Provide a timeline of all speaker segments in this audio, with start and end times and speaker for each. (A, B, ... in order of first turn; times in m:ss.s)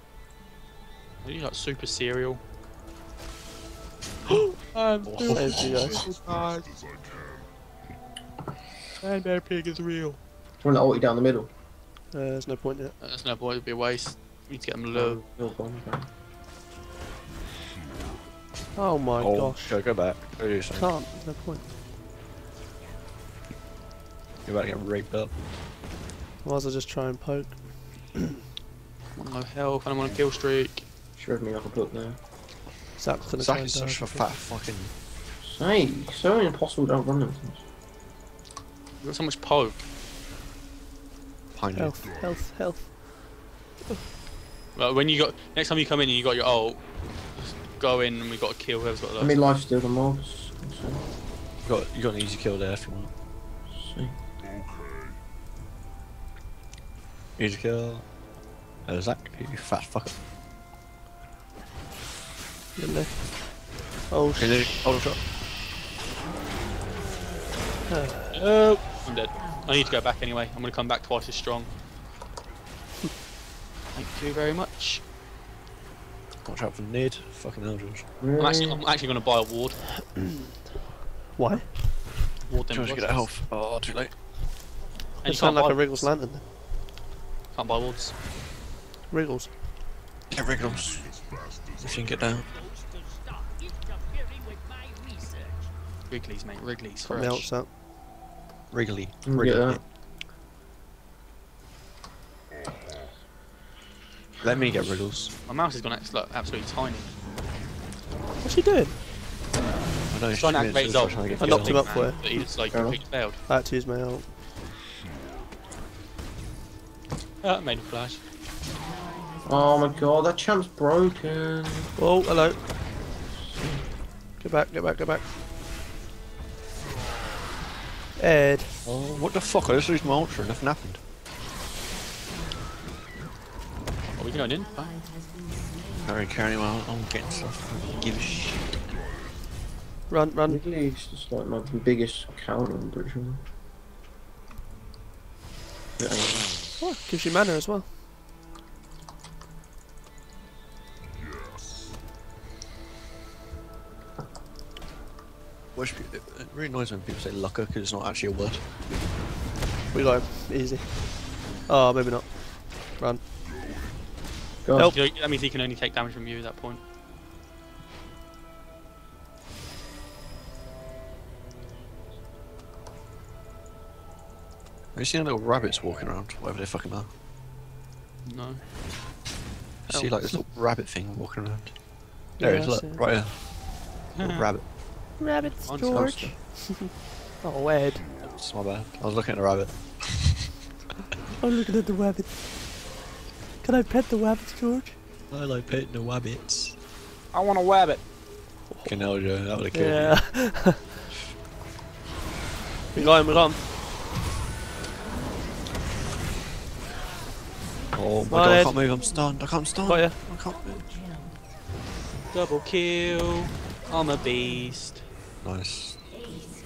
0:01.2-0:02.4 A
0:04.6-0:06.7 A
0:05.0-0:06.1 B
0:05.3-0:06.0 C
0:09.0-0:10.2 A
0:10.6-0:11.5 D
0:12.1-0:12.9 C
0:13.0-0:15.2 A
0:14.9-0:16.1 D
0:18.8-0:19.8 C
0:19.2-0:20.9 B
0:20.8-0:21.6 C
0:24.4-0:25.3 B
0:26.4-0:28.4 C
0:29.2-0:30.8 A
0:31.2-0:32.2 D
0:33.0-0:34.3 C
0:33.3-0:34.9 B
0:35.4-0:37.6 D
0:39.0-0:39.8 A
0:41.5-0:42.0 B
0:41.7-0:43.1 C
0:44.7-0:49.4 A
0:49.2-0:51.0 D
0:51.6-0:53.1 B
0:53.7-0:54.1 D
0:57.4-0:58.1 B
0:58.8-1:00.1 B
1:02.8-1:03.4 C
1:04.1-1:04.6 C
1:04.4-1:05.2 B
1:07.9-1:08.4 C
1:08.3-1:11.7 A
1:13.9-1:15.0 A
1:16.4-1:18.1 B
1:18.2-1:18.8 D
1:18.4-1:19.8 A
1:20.1-1:20.5 C
1:21.3-1:21.7 C
1:22.4-1:23.3 A
1:22.7-1:24.1 B
1:25.2-1:26.4 C
1:25.2-1:26.1 A
1:27.5-1:28.1 A
1:29.1-1:29.5 C
1:30.3-1:32.5 B
1:36.1-1:37.5 A
1:37.0-1:37.7 C
1:38.7-1:39.8 B
1:39.2-1:39.8 D
1:44.4-1:45.3 B
1:45.5-1:47.1 A
1:48.4-1:49.0 C
1:50.1-1:52.0 B
1:50.3-1:53.4 A
1:51.4-1:52.2 C
1:52.7-1:53.0 D
1:53.5-1:54.3 C
1:57.4-1:58.2 A
1:59.4-2:02.0 D
2:02.0-2:02.6 C
2:03.3-2:03.8 D
2:04.4-2:05.2 C
2:08.2-2:08.8 C
2:08.8-2:11.0 B
2:14.1-2:15.0 A
2:16.0-2:18.7 B
2:20.1-2:20.6 C
2:20.5-2:23.4 D
2:26.0-2:26.6 D
2:26.8-2:27.9 C
2:35.7-2:38.6 B
2:39.9-2:43.2 C
2:44.6-2:44.9 D
2:44.8-2:46.8 A
2:54.9-2:57.1 B
2:58.2-2:58.6 A
2:59.8-3:03.4 B
2:59.9-3:00.4 C
3:02.4-3:03.0 C
3:04.1-3:04.5 A
3:04.2-3:04.7 B
3:05.2-3:08.0 C
3:05.4-3:06.3 A
3:05.8-3:06.3 D
3:08.2-3:10.5 B
3:11.4-3:12.4 C
3:13.6-3:15.0 C
3:15.3-3:16.8 B
3:17.3-3:18.0 A
3:18.7-3:21.1 C
3:18.8-3:20.3 B
3:22.9-3:23.6 C
3:27.9-3:30.9 B
3:28.3-3:28.8 C
3:29.9-3:30.2 C
3:32.3-3:35.0 A
3:35.4-3:36.2 B